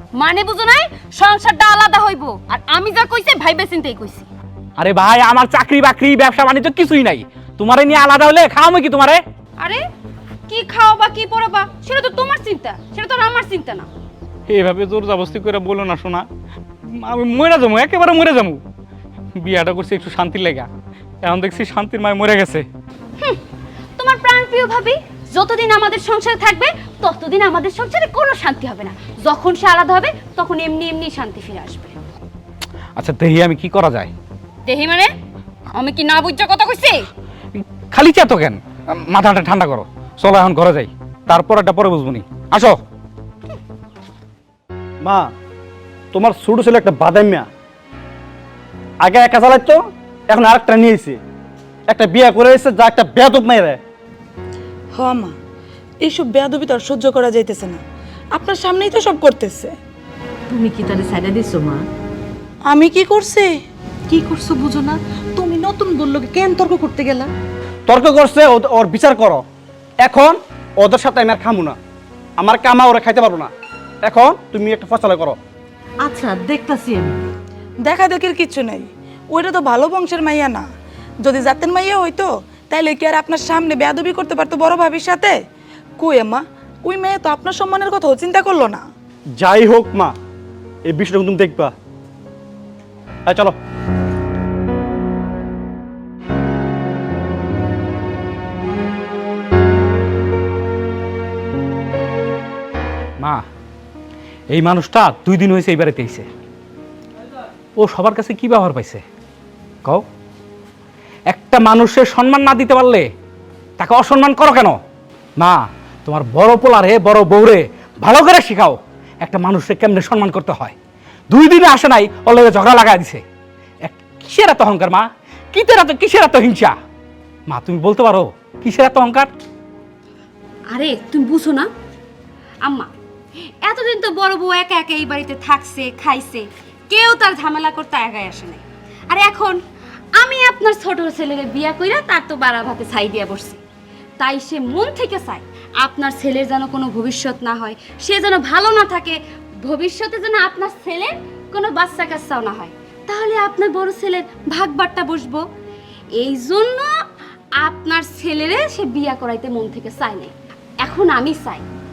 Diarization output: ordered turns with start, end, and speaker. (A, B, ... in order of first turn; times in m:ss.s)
0:00.2-0:04.3 A
0:04.8-0:09.2 B
0:09.6-0:09.9 A
0:10.5-0:13.9 A
0:14.5-0:16.3 B
0:16.9-0:18.6 B
0:19.4-0:20.7 B
0:21.2-0:22.7 B
0:24.0-0:32.0 A
0:33.0-0:34.1 B
0:34.7-0:35.1 A
0:35.8-0:37.1 A
0:37.6-0:42.8 B
0:45.0-0:45.3 C
0:46.1-0:47.5 C
0:49.0-0:49.8 C
0:50.3-0:51.2 C
0:51.9-0:53.8 C
0:55.0-0:55.4 D
0:56.0-0:57.8 D
0:58.4-0:59.7 D
1:00.5-1:01.8 E
1:02.7-1:03.5 D
1:04.1-1:07.3 E
1:07.9-1:09.4 C
1:10.0-1:11.8 C
1:12.4-1:13.5 C
1:14.0-1:15.4 C
1:16.0-1:17.2 E
1:17.8-1:20.7 D
1:21.2-1:25.4 D
1:26.0-1:28.8 D
1:29.4-1:30.2 C
1:30.9-1:31.7 C
1:33.3-1:33.6 C
1:44.5-1:46.3 B
1:47.8-1:49.0 B
1:51.3-1:53.1 B
1:53.8-1:54.8 B
1:55.4-2:00.8 B
2:01.3-2:03.2 B
2:03.8-2:06.8 B
2:07.5-2:09.3 B
2:10.7-2:11.7 A
2:12.6-2:12.9 A
2:13.6-2:19.6 A
2:20.2-2:23.6 A
2:24.2-2:35.4 A
2:36.2-2:36.9 A
2:37.6-2:41.6 A